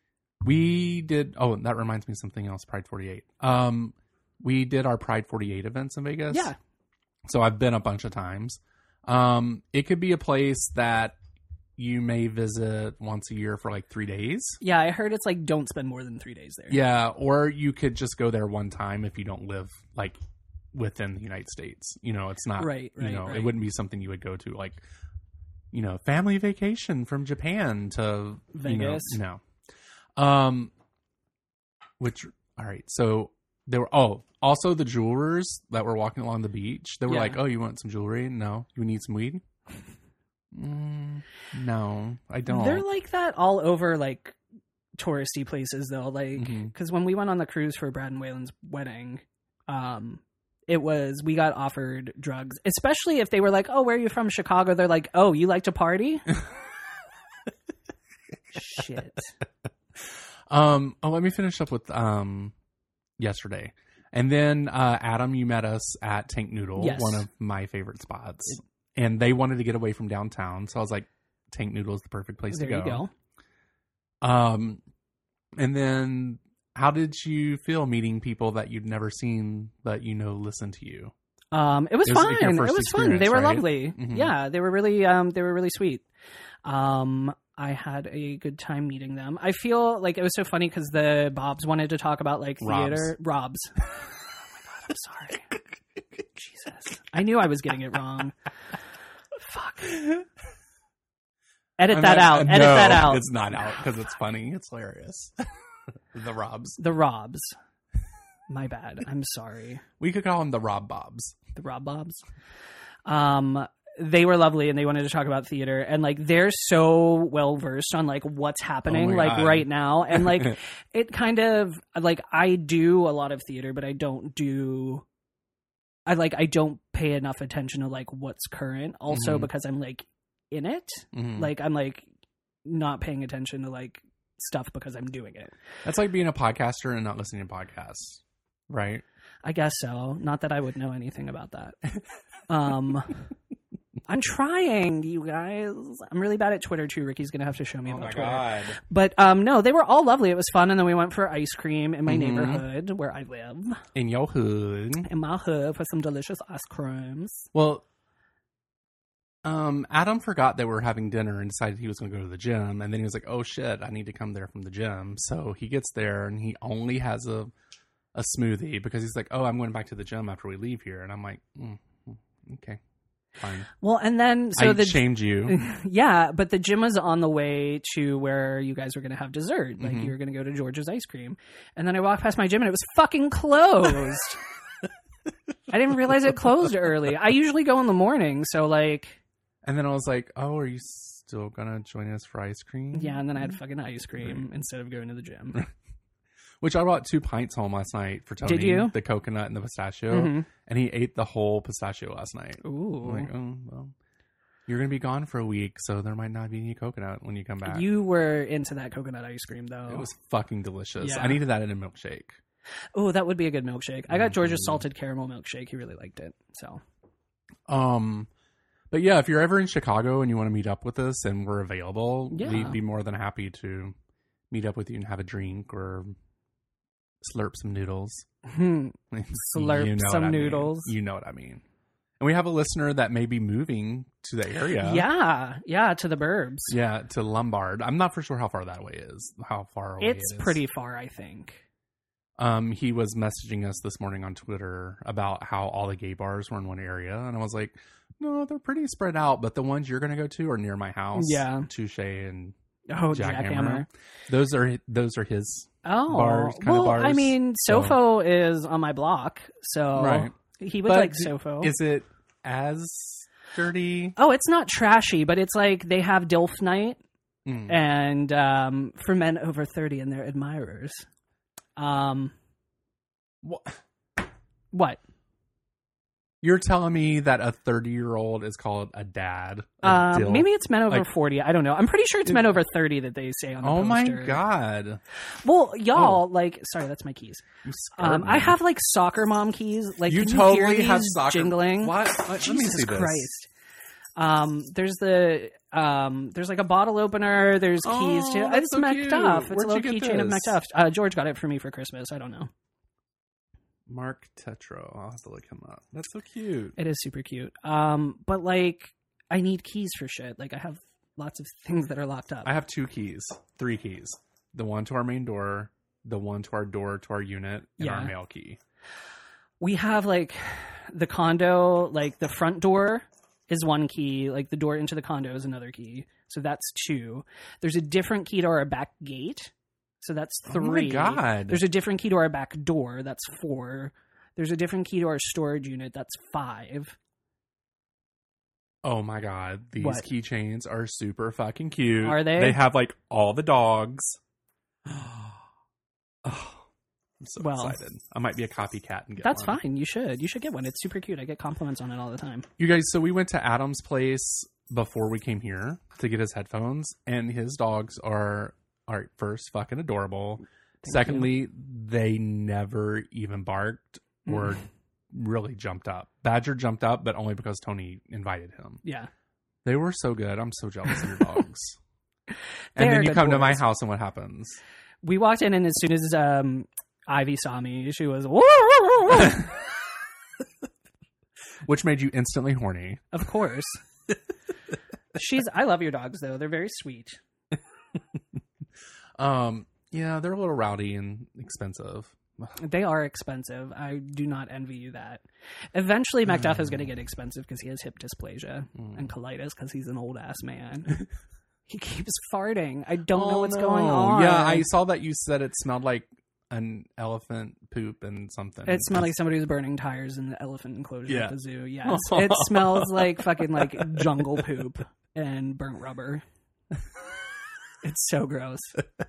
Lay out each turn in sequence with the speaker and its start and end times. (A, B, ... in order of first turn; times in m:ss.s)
0:00.4-0:06.5 A
0:06.3-0:06.6 B
0:07.3-0:11.2 A
0:11.8-0:14.6 A
0:14.6-0:16.8 B
0:16.7-0:20.2 A
0:20.7-0:24.8 A
0:22.6-0:23.5 B
0:25.7-0:29.4 A
0:28.5-0:29.2 B
0:30.2-0:30.7 A
0:32.0-0:39.4 A
0:37.1-0:37.4 B
0:40.5-0:42.8 A
0:42.5-0:44.4 B
0:45.0-0:56.3 B
0:46.4-0:46.7 A
0:58.5-0:59.3 B
1:00.5-1:02.5 A
1:03.2-1:13.0 A
1:06.8-1:07.3 B
1:12.5-1:13.1 B
1:14.2-1:14.8 A
1:15.6-1:21.1 A
1:21.5-1:26.0 B
1:22.0-1:24.3 A
1:26.6-1:33.9 B
1:32.6-1:33.1 A
1:34.7-1:35.5 B
1:36.4-1:38.4 B
1:39.4-1:40.1 B
1:41.8-1:43.3 B
1:41.9-1:45.5 A
1:46.1-1:46.8 A
1:46.8-1:47.6 B
1:48.5-1:49.8 B
1:50.0-1:51.4 A
1:51.6-1:52.2 B
1:53.1-2:05.0 B
1:58.9-2:00.5 A
2:06.1-2:12.1 B
2:09.1-2:09.5 A
2:11.1-2:11.5 A
2:12.6-2:15.5 B
2:15.8-2:19.0 A
2:19.4-2:21.8 B
2:22.5-2:23.2 B
2:24.1-2:33.8 B
2:27.9-2:28.8 A
2:32.1-2:32.6 A
2:34.0-2:35.1 A
2:35.0-2:37.5 B
2:37.5-2:37.8 A
2:39.4-2:47.5 A
2:48.2-2:52.8 A
2:53.4-2:53.7 A
2:53.8-3:04.4 B
2:54.6-2:55.6 A
2:59.8-3:00.1 A
3:05.7-3:09.2 B
3:09.6-3:13.6 A
3:12.9-3:15.6 B
3:16.6-3:23.9 A
3:18.4-3:19.0 B
3:20.1-3:20.5 B
3:22.6-3:23.3 B
3:24.7-3:27.9 A
3:27.6-3:30.1 B
3:29.9-3:32.4 A
3:31.0-3:31.4 B
3:33.0-3:36.8 B
3:34.1-3:34.8 A
3:37.7-3:38.3 A
3:38.9-3:44.0 A
3:42.3-3:42.8 B
3:44.5-3:46.1 A
3:47.2-3:48.3 A
3:48.4-3:51.0 B
3:49.1-3:51.6 A
3:52.2-3:55.1 A
3:54.8-3:56.8 B
3:56.7-4:00.6 A
4:00.0-4:01.6 B
4:02.4-4:12.6 A
4:11.2-4:11.7 B
4:12.9-4:13.9 B
4:13.1-4:18.0 A
4:15.8-4:21.8 B
4:20.0-4:20.3 A
4:20.8-4:24.2 A
4:24.2-4:27.0 B
4:27.5-4:27.8 A
4:27.7-4:31.1 B
4:31.8-4:32.3 B
4:33.4-4:33.8 A
4:34.7-4:35.0 B
4:36.4-4:41.1 A
4:39.8-4:44.4 B
4:43.6-4:45.0 A
4:45.4-4:47.4 B
4:45.9-4:46.2 A
4:47.6-4:48.6 A
4:48.0-4:53.5 B
4:50.1-4:53.3 A
4:54.2-5:02.5 B
4:57.8-5:00.6 A
5:03.9-5:06.8 A
5:06.8-5:12.5 B
5:12.4-5:18.6 A
5:17.8-5:18.1 B
5:19.6-5:37.0 B
5:30.5-5:31.6 A
5:38.8-5:44.2 A
5:39.8-5:40.1 B
5:42.0-5:42.6 B
5:46.2-5:46.6 A
5:47.2-5:49.6 A
5:47.4-5:47.8 B
5:49.2-5:52.5 B
5:52.6-6:08.8 A
6:00.8-6:01.3 B
6:04.3-6:04.5 B
6:08.8-6:09.1 B
6:09.6-6:11.8 A
6:12.8-6:13.6 B
6:12.8-6:14.6 A
6:15.0-6:19.5 B
6:21.6-6:23.1 A
6:23.1-6:23.8 B
6:25.1-6:27.2 B
6:29.2-6:32.6 A
6:32.6-6:35.2 B
6:35.7-6:41.0 B
6:36.3-6:36.8 A
6:38.8-6:39.0 A
6:41.7-6:44.7 B
6:43.1-6:49.1 A
6:48.7-6:56.2 B
6:51.1-6:54.4 A
6:57.8-6:58.8 B